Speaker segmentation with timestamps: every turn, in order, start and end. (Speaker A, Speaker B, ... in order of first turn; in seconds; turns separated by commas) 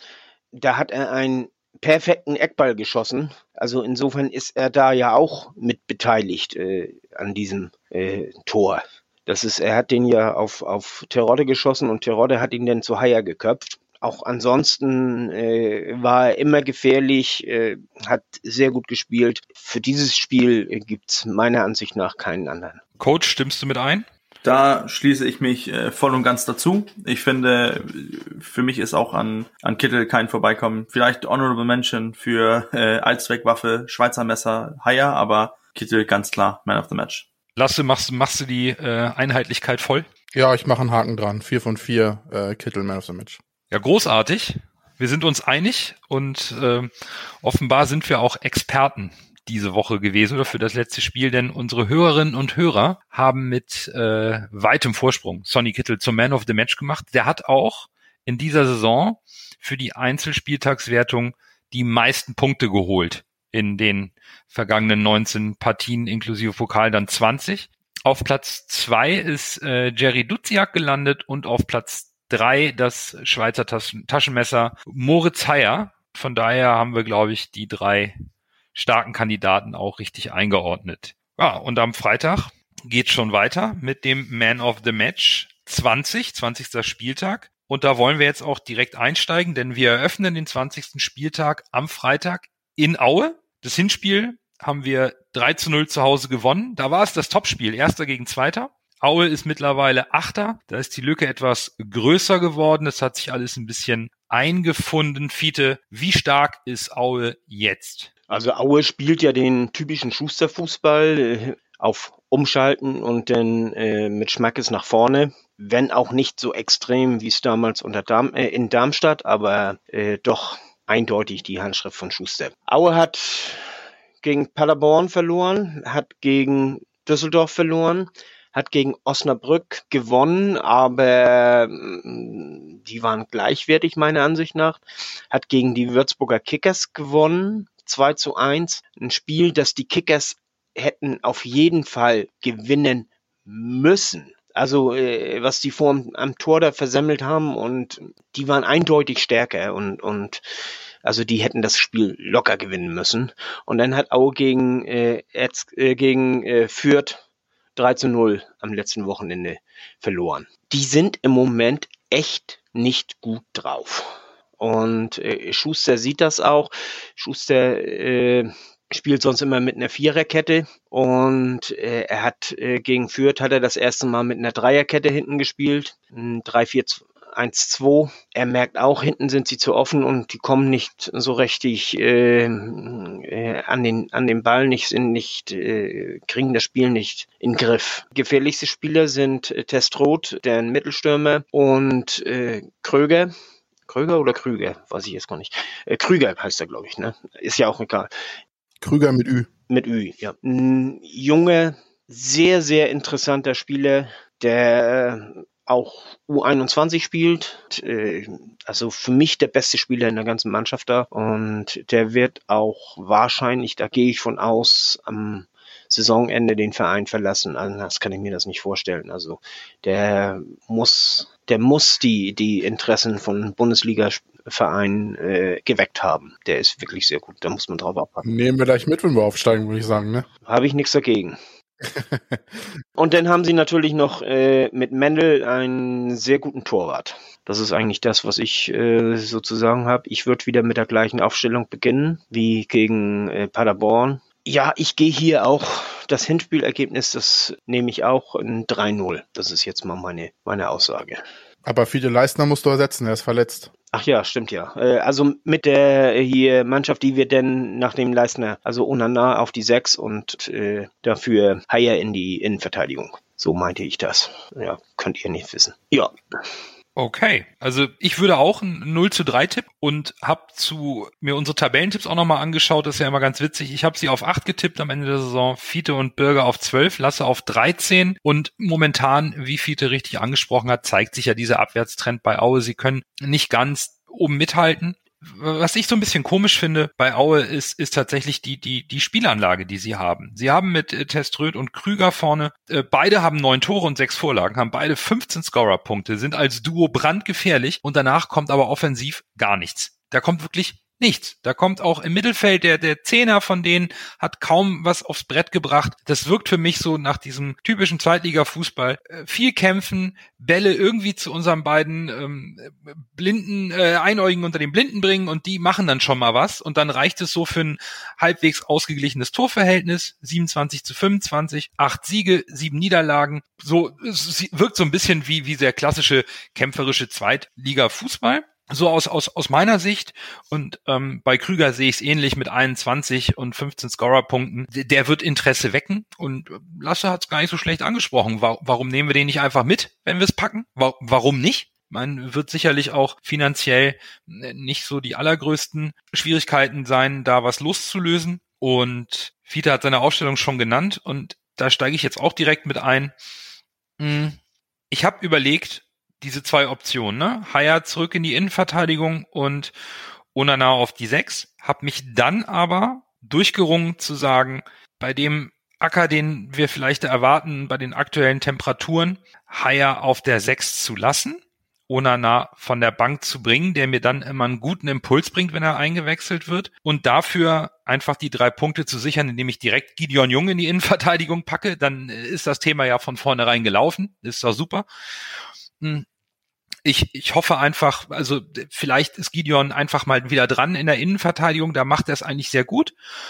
Speaker A: 0.5-22.8, Speaker B: 23.0-24.1, Speaker C: 24.4-37.3, Speaker B: 37.5-40.1, Speaker D: 40.3-43.4, Speaker B: 43.7-46.9, Speaker B: 47.4-78.2, Speaker B: 78.7-108.1, Speaker A: 108.3-123.6, Speaker A: 124.2-150.4, Speaker A: 151.0-157.2, Speaker A: 157.8-193.3, Speaker A: 193.9-198.1, Speaker D: 198.8-199.5, Speaker A: 199.7-228.2, Speaker D: 228.2-230.3, Speaker A: 230.4-231.4, Speaker D: 231.8-232.4, Speaker A: 233.0-251.2, Speaker D: 251.6-253.7, Speaker A: 253.9-266.1, Speaker B: 266.9-353.1, Speaker B: 354.0-354.4, Speaker B: 354.9-359.7, Speaker B: 360.3-384.8, Speaker B: 385.8-386.0, Speaker B: 386.8-392.9